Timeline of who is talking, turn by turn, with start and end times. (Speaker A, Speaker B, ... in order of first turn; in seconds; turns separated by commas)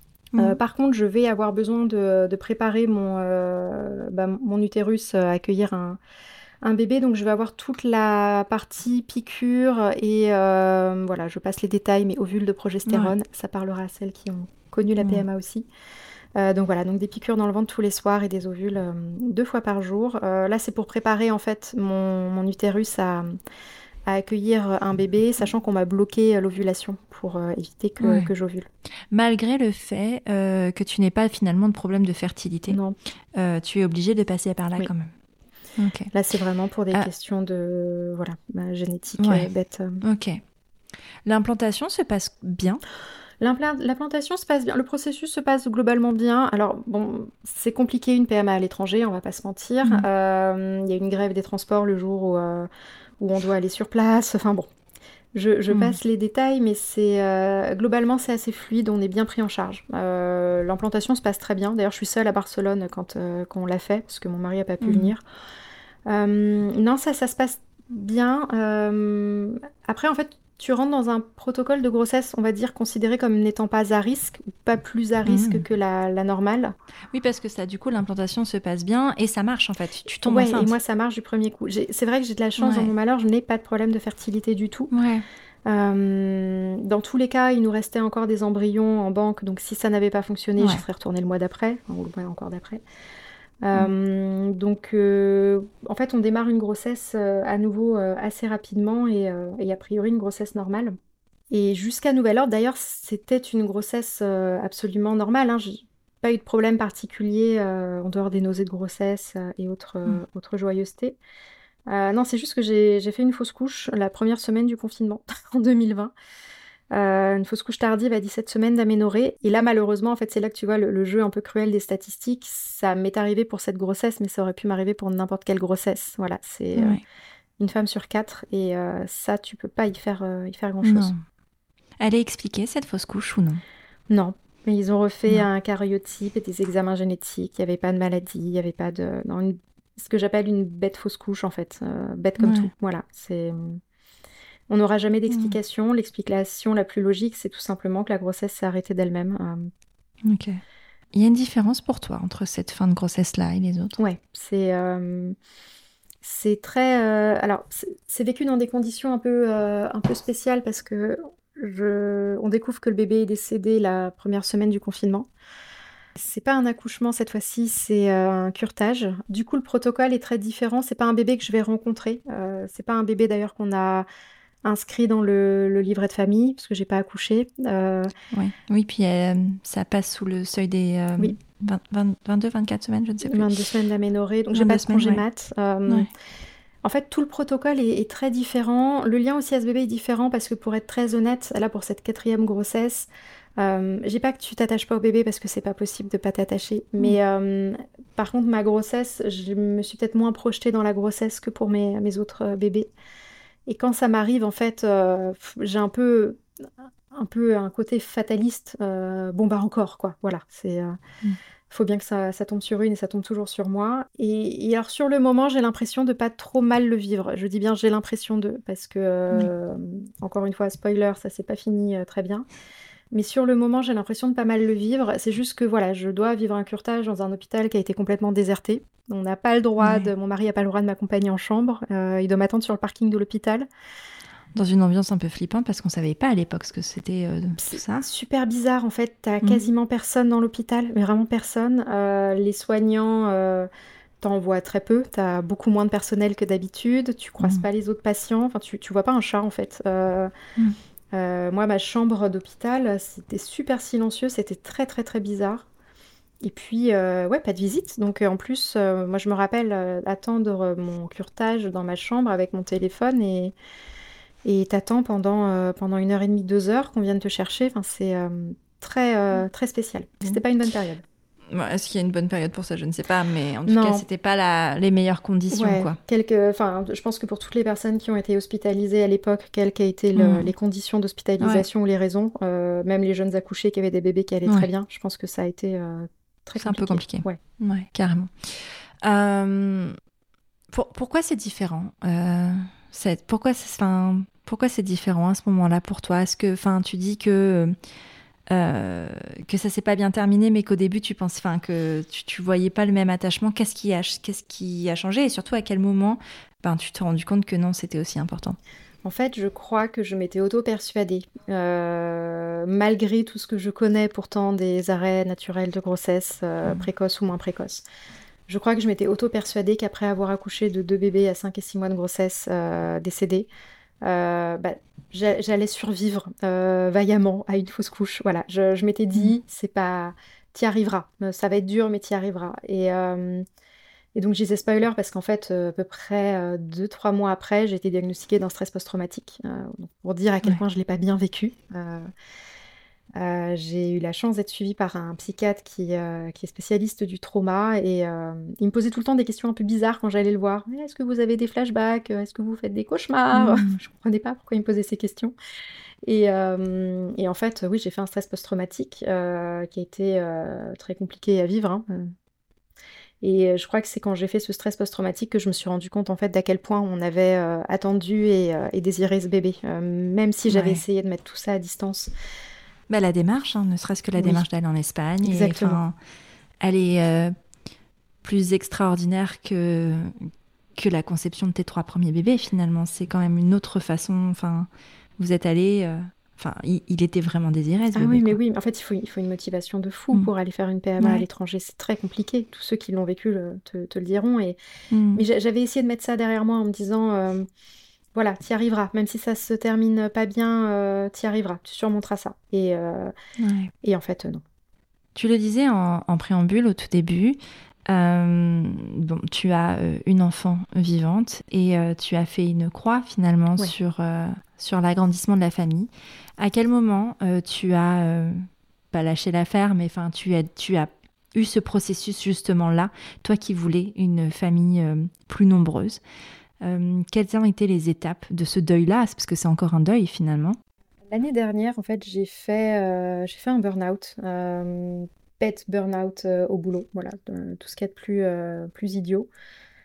Speaker A: 0.3-0.6, Speaker B: 0.4-6.0, Speaker B: 6.6-15.7, Speaker A: 12.9-13.1, Speaker A: 15.0-15.2, Speaker B: 16.4-23.4, Speaker B: 24.1-28.7, Speaker A: 28.0-28.3, Speaker A: 29.1-32.8, Speaker B: 32.7-33.0, Speaker A: 33.3-35.1, Speaker A: 35.8-36.1, Speaker B: 36.1-40.0, Speaker A: 39.2-39.5, Speaker A: 40.0-40.4, Speaker A: 41.2-42.8, Speaker B: 43.4-52.7, Speaker B: 53.2-54.7, Speaker B: 55.3-65.2, Speaker A: 55.7-56.0, Speaker A: 64.8-65.1, Speaker B: 66.1-76.7, Speaker A: 75.3-75.6, Speaker A: 77.1-80.7, Speaker B: 80.3-84.9, Speaker A: 82.6-82.9, Speaker A: 84.9-85.2, Speaker B: 85.7-92.8, Speaker B: 93.6-101.0, Speaker B: 101.5-111.2, Speaker B: 111.9-116.1, Speaker B: 116.9-127.0, Speaker A: 126.8-127.0, Speaker B: 127.6-131.1, Speaker A: 130.8-131.2, Speaker A: 132.0-133.6, Speaker B: 134.1-143.8, Speaker A: 142.4-142.7, Speaker B: 144.7-149.7, Speaker A: 145.3-145.6, Speaker A: 150.2-150.6, Speaker A: 151.1-154.0, Speaker B: 154.0-155.3, Speaker B: 156.2-165.3, Speaker B: 166.2-174.1, Speaker B: 174.6-178.1, Speaker A: 178.3-183.6, Speaker B: 183.2-186.1, Speaker A: 184.5-185.2, Speaker B: 186.8-202.9, Speaker B: 203.7-206.4, Speaker B: 207.1-211.0, Speaker B: 211.7-222.4, Speaker B: 223.1-233.7, Speaker A: 229.8-230.1, Speaker A: 234.5-238.1, Speaker B: 237.6-243.7, Speaker B: 244.2-250.3, Speaker B: 251.1-255.7, Speaker B: 256.4-263.5, Speaker B: 264.4-271.0, Speaker A: 271.5-276.0, Speaker B: 273.7-274.0, Speaker B: 275.5-287.4, Speaker A: 280.1-280.5, Speaker A: 281.4-281.6, Speaker A: 286.6-289.9, Speaker A: 290.7-297.7, Speaker A: 298.5-308.6, Speaker B: 309.1-317.8, Speaker B: 318.5-323.5, Speaker B: 324.0-333.4, Speaker B: 334.1-342.1, Speaker B: 343.1-355.3, Speaker A: 353.3-353.7, Speaker B: 356.1-362.1, Speaker B: 363.2-372.1, Speaker A: 370.5-370.8, Speaker A: 372.9-375.9, Speaker B: 374.2-374.4, Speaker B: 375.2-375.8, Speaker A: 376.6-377.3, Speaker A: 378.2-388.4, Speaker B: 387.9-394.6, Speaker A: 391.0-391.3, Speaker A: 394.9-395.2, Speaker B: 395.1-397.5, Speaker B: 398.1-403.1, Speaker A: 403.4-403.7, Speaker B: 403.8-404.4, Speaker A: 405.1-407.4, Speaker A: 407.9-426.0, Speaker A: 426.6-430.6, Speaker B: 431.1-439.3